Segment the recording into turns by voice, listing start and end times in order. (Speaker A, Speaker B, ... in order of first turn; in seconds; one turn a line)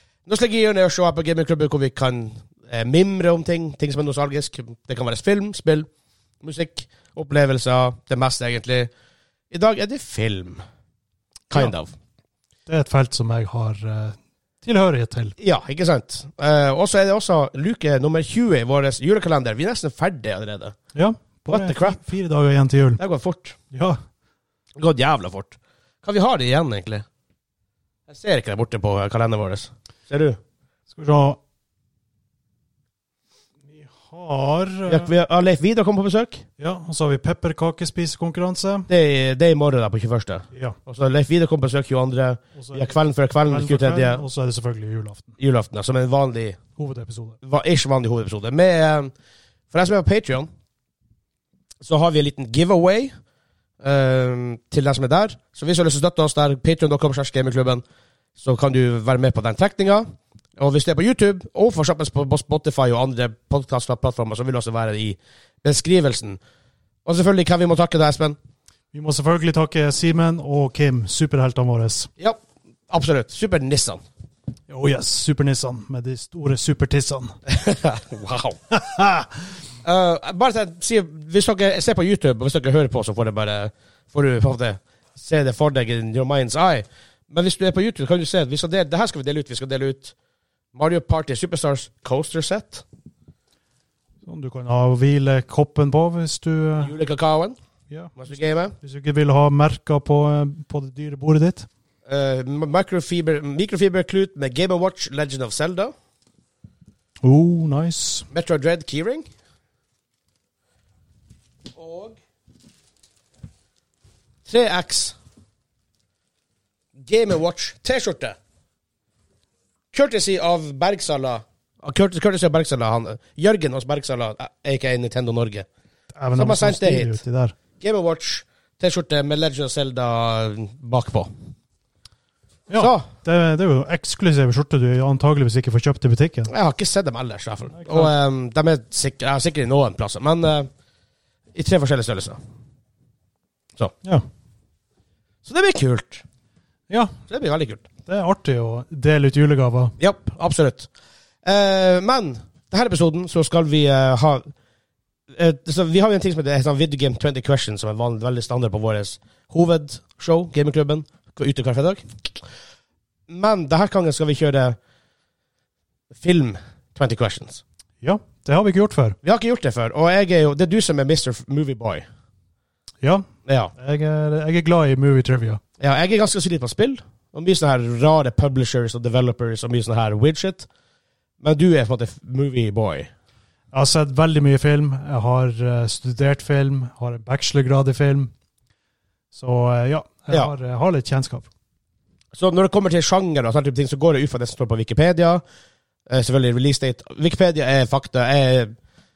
Speaker A: 0.3-5.9
Speaker A: 6.4-8.9
Speaker A: 9.5-10.6
Speaker A: 11.5-11.9
Speaker B: 12.7-15.3
Speaker A: 15.4-20.8
Speaker B: 20.9-23.0
Speaker A: 21.5-22.0
Speaker A: 23.0-23.6
Speaker B: 23.7-24.0
Speaker A: 24.8-27.1
Speaker A: 28.1-30.4
Speaker B: 30.9-31.4
Speaker B: 33.7-35.1
Speaker A: 34.9-36.5
Speaker B: 36.6-38.9
Speaker A: 38.9-44.2
Speaker B: 42.5-45.3
Speaker A: 45.4-46.6
Speaker B: 46.8-47.4
Speaker A: 47.4-49.1
Speaker A: 49.7-50.5
Speaker A: 51.8-53.1
Speaker A: 53.8-57.8
Speaker A: 58.4-66.4
Speaker A: 67.0-68.4
Speaker B: 68.9-72.1
Speaker A: 72.2-74.0
Speaker B: 74.7-77.4
Speaker A: 77.5-78.6
Speaker B: 78.7-79.5
Speaker A: 79.8-90.1
Speaker A: 90.7-92.8
Speaker B: 94.2-96.9
Speaker A: 96.8-97.6
Speaker B: 97.9-98.1
Speaker A: 98.2-98.8
Speaker B: 98.8-101.7
Speaker A: 102.1-105.9
Speaker B: 107.2-108.3
Speaker A: 108.3-109.3
Speaker A: 111.8-112.2
Speaker A: 114.5-115.2
Speaker A: 117.0-118.4
Speaker A: 119.9-125.7
Speaker B: 126.2-127.6
Speaker A: 126.3-127.2
Speaker A: 127.8-131.3
Speaker B: 132.7-136.5
Speaker A: 132.8-133.1
Speaker A: 136.5-140.7
Speaker B: 137.7-138.1
Speaker A: 141.6-142.4
Speaker A: 145.4-146.2
Speaker B: 146.9-147.2
Speaker A: 147.3-147.8
Speaker B: 148.1-150.0
Speaker A: 150.0-150.9
Speaker A: 151.4-154.5
Speaker A: 155.3-162.2
Speaker A: 163.3-164.8
Speaker A: 166.1-167.6
Speaker B: 168.0-169.2
Speaker A: 169.2-172.1
Speaker B: 173.0-175.6
Speaker A: 173.5-173.7
Speaker A: 175.8-180.7
Speaker A: 181.4-183.1
Speaker B: 183.7-188.3
Speaker B: 189.3-191.5
Speaker A: 192.3-195.4
Speaker A: 196.1-198.7